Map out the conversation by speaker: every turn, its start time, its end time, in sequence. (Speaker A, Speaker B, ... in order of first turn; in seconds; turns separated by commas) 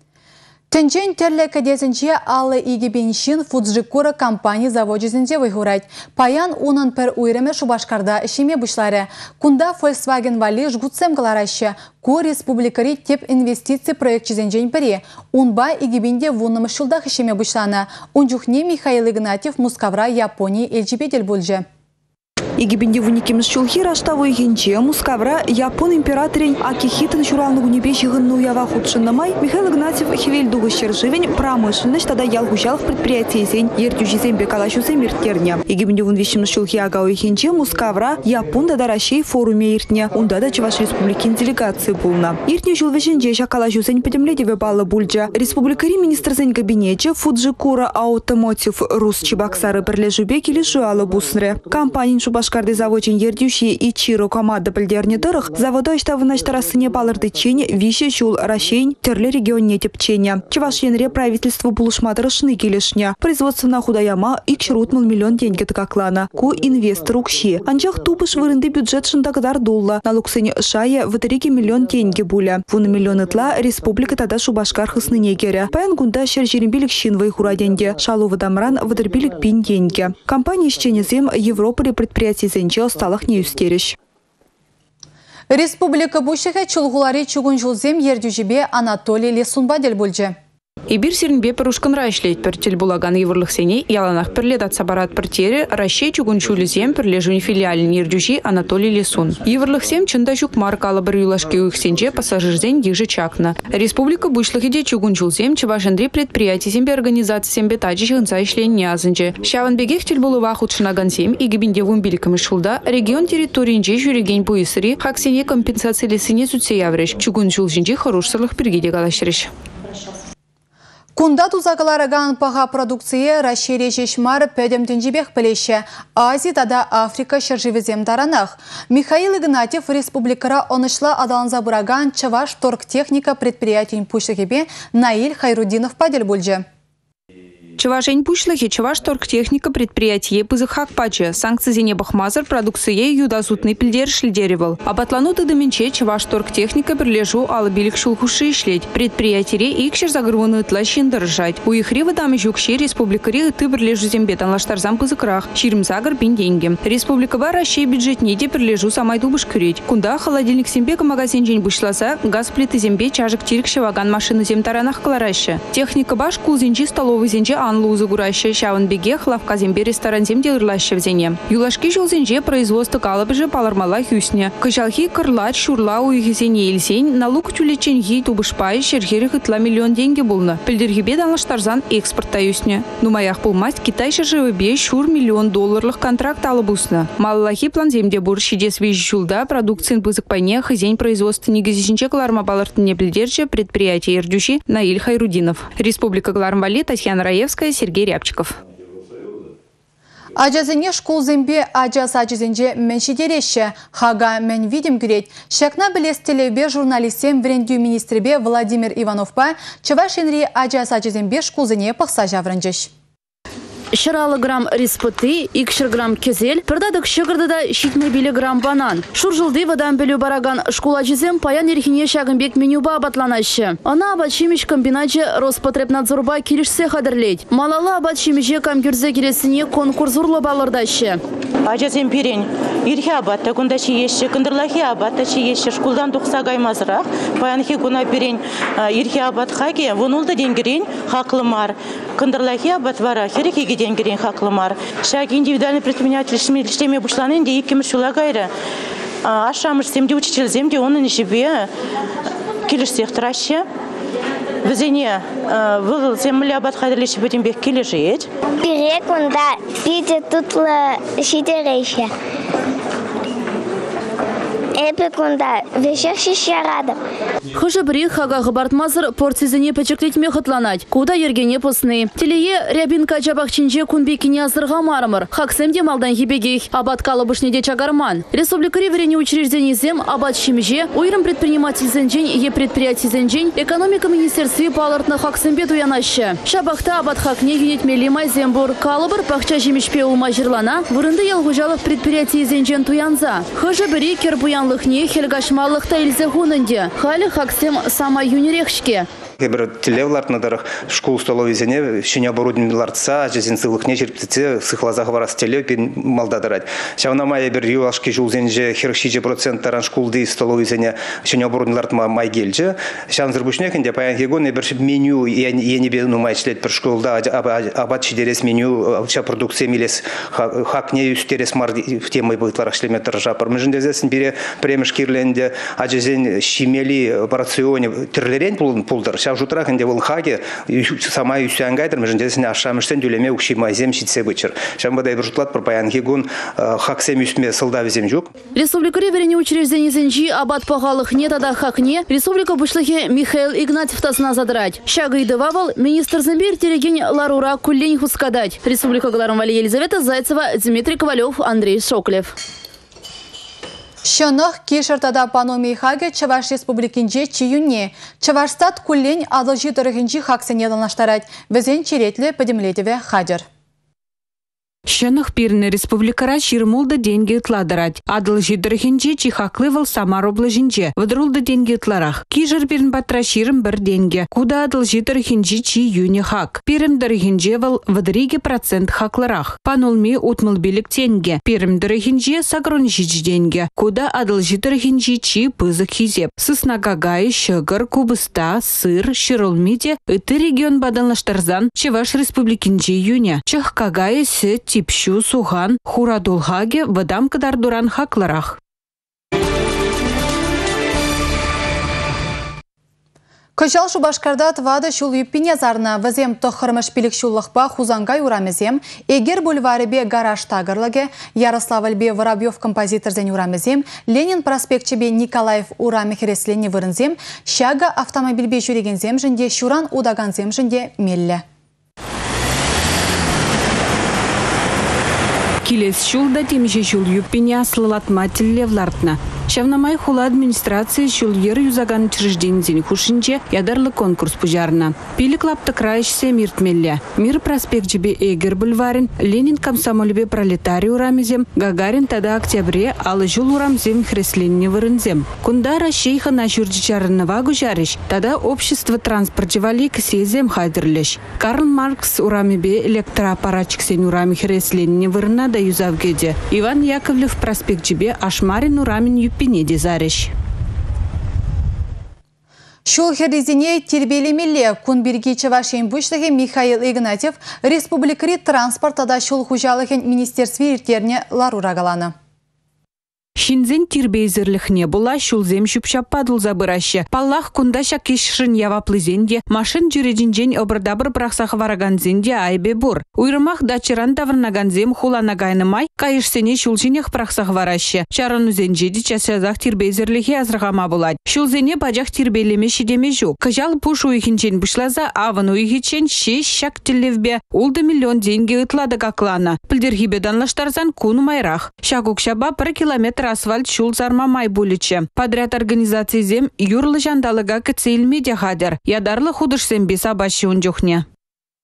Speaker A: 0.7-21.6, Speaker B: 22.6-84.0, Speaker A: 85.5-90.3, Speaker C: 90.9-119.5, Speaker A: 121.2-136.6, Speaker C: 137.8-198.6, Speaker A: 200.3-212.9, Speaker D: 213.9-231.2, Speaker E: 231.7-248.5, Speaker E: 249.2-251.7, Speaker E: 252.7-253.6, Speaker E: 254.6-258.2, Speaker F: 258.6-262.1, Speaker F: 264.8-267.0, Speaker D: 267.5-299.1, Speaker G: 299.4-338.3, Speaker D: 338.5-352.3, Speaker A: 354.0-363.4, Speaker H: 364.9-398.6, Speaker A: 403.6-421.4, Speaker H: 425.6-460.3, Speaker A: 462.9-472.1, Speaker H: 473.4-511.0